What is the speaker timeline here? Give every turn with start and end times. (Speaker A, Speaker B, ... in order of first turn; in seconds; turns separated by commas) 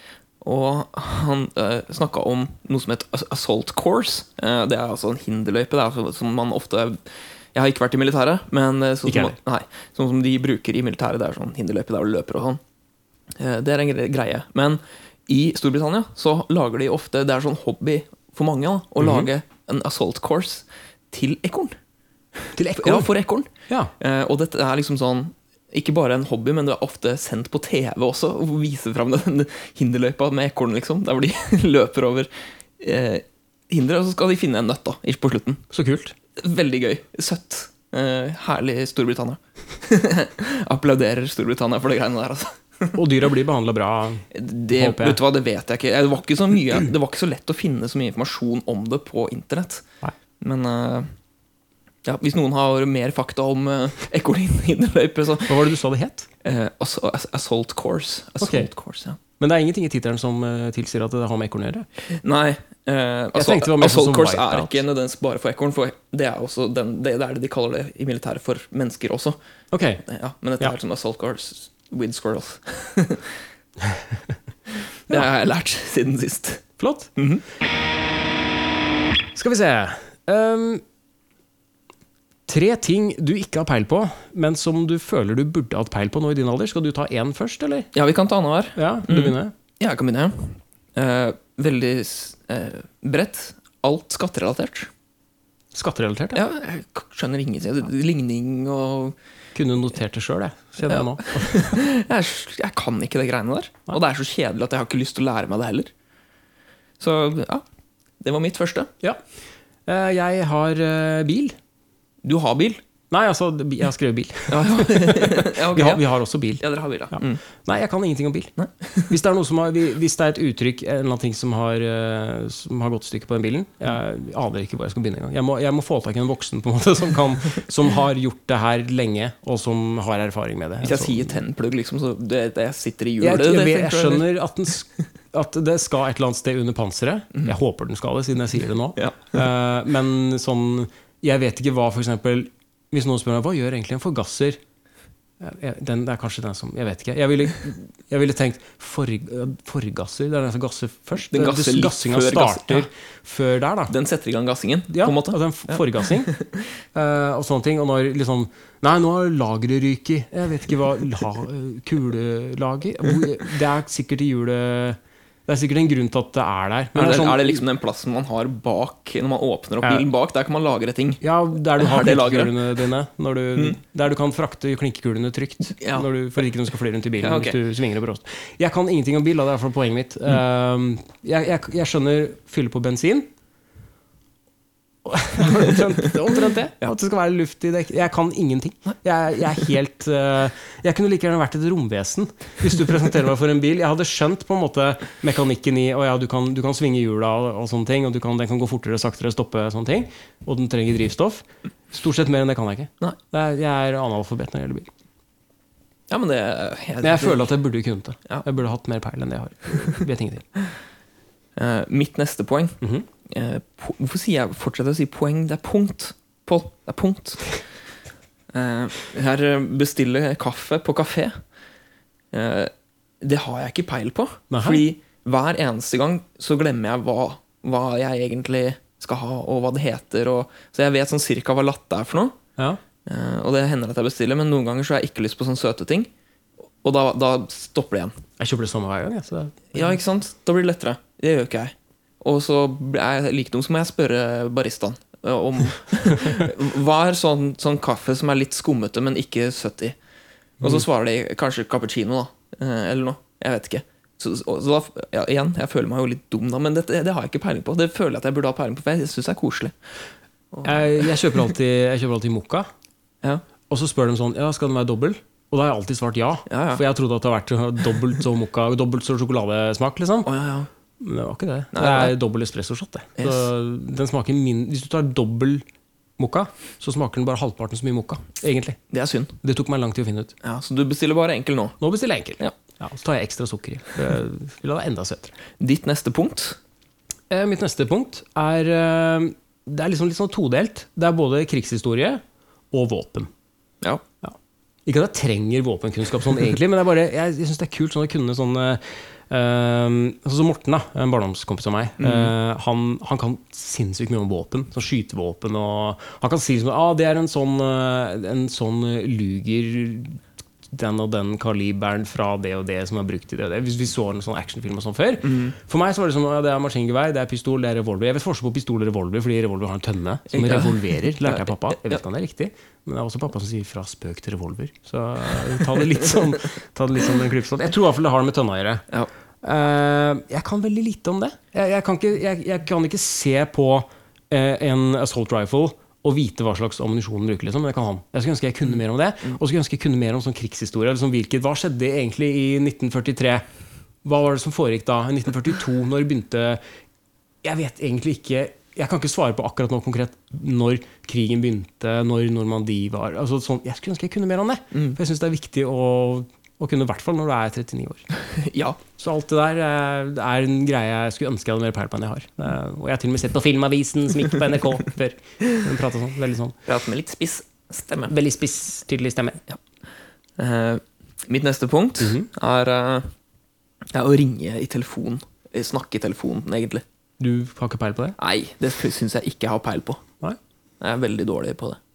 Speaker A: 0.4-12.6, Speaker B: 9.0-9.3, Speaker A: 13.3-21.8, Speaker B: 19.0-19.3, Speaker B: 22.6-23.9, Speaker A: 22.7-35.6, Speaker B: 35.7-36.1, Speaker A: 36.4-43.0, Speaker B: 42.9-45.2, Speaker A: 44.3-49.9, Speaker A: 50.4-51.1, Speaker A: 52.0-55.6, Speaker B: 55.5-56.3, Speaker A: 56.4-59.2, Speaker B: 58.4-58.7, Speaker B: 59.4-61.9, Speaker A: 62.1-69.4, Speaker B: 63.3-64.8, Speaker B: 69.7-70.0, Speaker A: 70.0-73.3, Speaker A: 75.1-77.4, Speaker B: 76.8-77.1, Speaker B: 79.3-80.8, Speaker B: 82.5-87.9, Speaker A: 87.9-94.9, Speaker B: 88.8-89.5, Speaker B: 95.7-96.4, Speaker A: 96.3-99.2, Speaker B: 99.5-101.8, Speaker A: 100.9-105.9, Speaker A: 107.0-107.6, Speaker A: 108.2-108.9, Speaker B: 109.9-111.5, Speaker A: 112.2-112.8, Speaker B: 113.1-118.5, Speaker A: 114.5-116.0, Speaker A: 116.6-117.4, Speaker A: 118.6-119.1, Speaker B: 119.1-131.4, Speaker A: 130.8-134.3, Speaker B: 133.2-144.6, Speaker A: 138.9-139.4, Speaker B: 145.4-153.9, Speaker A: 151.2-152.9, Speaker A: 153.9-156.6, Speaker B: 154.9-156.3, Speaker B: 156.9-167.6, Speaker A: 166.9-171.2, Speaker B: 169.8-170.1, Speaker B: 171.2-183.3, Speaker A: 171.8-172.6, Speaker A: 175.7-176.1, Speaker A: 177.2-177.6, Speaker B: 185.0-204.9, Speaker A: 206.1-207.5, Speaker B: 207.0-210.5, Speaker A: 211.6-217.5, Speaker B: 212.8-213.1, Speaker A: 218.5-221.4, Speaker A: 222.3-232.4, Speaker B: 224.5-224.8, Speaker A: 233.1-236.1, Speaker A: 236.8-238.2, Speaker B: 238.4-240.0, Speaker A: 239.7-250.0, Speaker A: 250.6-259.8, Speaker A: 260.5-261.1, Speaker B: 260.6-262.7, Speaker B: 263.7-270.3, Speaker A: 266.5-266.8, Speaker A: 270.2-270.7, Speaker B: 271.0-275.6, Speaker A: 271.7-272.1, Speaker A: 273.2-273.5, Speaker B: 276.2-278.8, Speaker A: 278.9-279.3, Speaker B: 279.4-280.3, Speaker A: 280.4-281.8, Speaker B: 281.8-285.3, Speaker A: 285.6-286.6, Speaker B: 287.3-293.3, Speaker B: 294.2-328.8, Speaker A: 302.0-302.3, Speaker A: 315.2-315.5, Speaker A: 320.3-322.0, Speaker B: 329.4-343.4, Speaker B: 344.0-346.6, Speaker B: 347.4-358.0, Speaker A: 358.3-358.8, Speaker B: 359.0-366.6, Speaker A: 366.6-368.1, Speaker B: 368.1-369.4, Speaker A: 370.4-373.1, Speaker B: 372.0-372.3, Speaker A: 373.9-376.8, Speaker B: 377.2-378.1, Speaker A: 378.2-380.0, Speaker A: 380.8-381.8